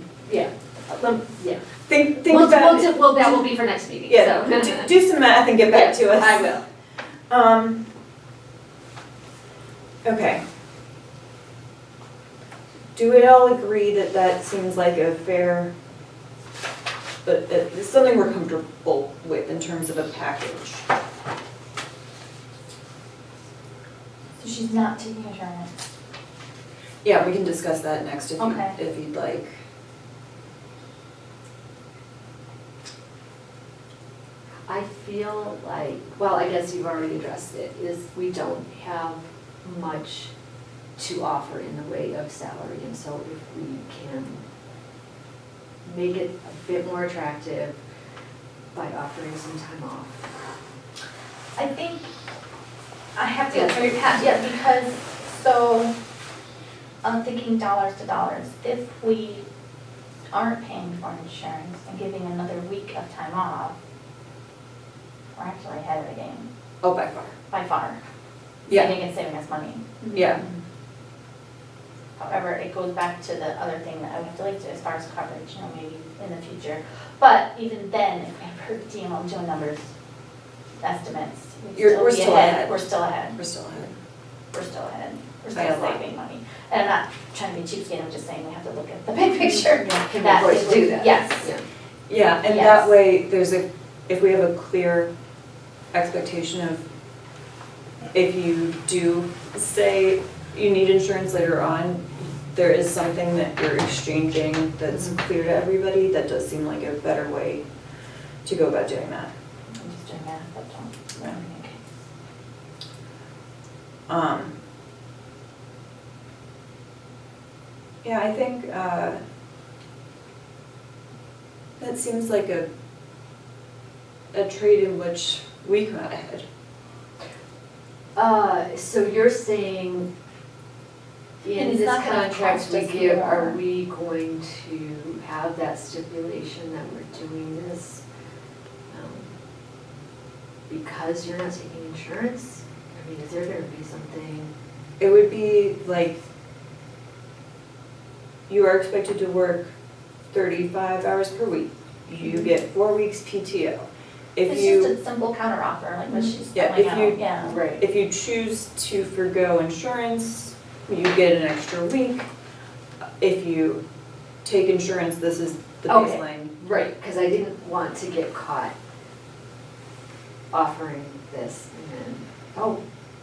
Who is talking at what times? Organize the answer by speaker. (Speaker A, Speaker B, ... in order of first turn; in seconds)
Speaker A: 0.2-1.6, 2.2-4.9, 5.7-6.6, 34.7-40.3, 41.0-44.4, 45.8-47.8, 48.7-50.2, 53.5-54.5, 89.8-91.6, 128.1-130.1, 131.4-138.0, 138.9-139.3, 140.7-144.5, 157.4-157.8, 165.9-168.7, 170.5-172.8
Speaker B: 1.9-3.5, 4.1-6.6, 7.3-7.8, 10.0-10.4, 12.9-15.7, 17.2-20.9, 27.0-29.5, 66.8-67.3, 68.7-68.9, 70.1-70.4, 81.7-84.0, 85.5-86.0, 92.1-95.1, 95.9-96.8, 98.1-107.6, 108.4-109.3, 114.1-114.5, 118.0-119.2, 121.8-122.7, 124.3-126.4, 145.0-146.2, 148.5-149.7, 150.3-154.9, 156.5-162.3, 163.2-163.8, 164.4-166.5
Speaker C: 24.4-25.7, 28.4-28.8, 51.5-52.1, 53.1-55.9, 57.0-59.4, 60.3-63.7, 65.3-66.5, 67.5-68.0, 68.7-70.5, 72.2-79.8, 80.8-83.3, 84.5-91.5, 92.4-92.9, 109.7-111.8, 131.6-133.5, 154.4-157.6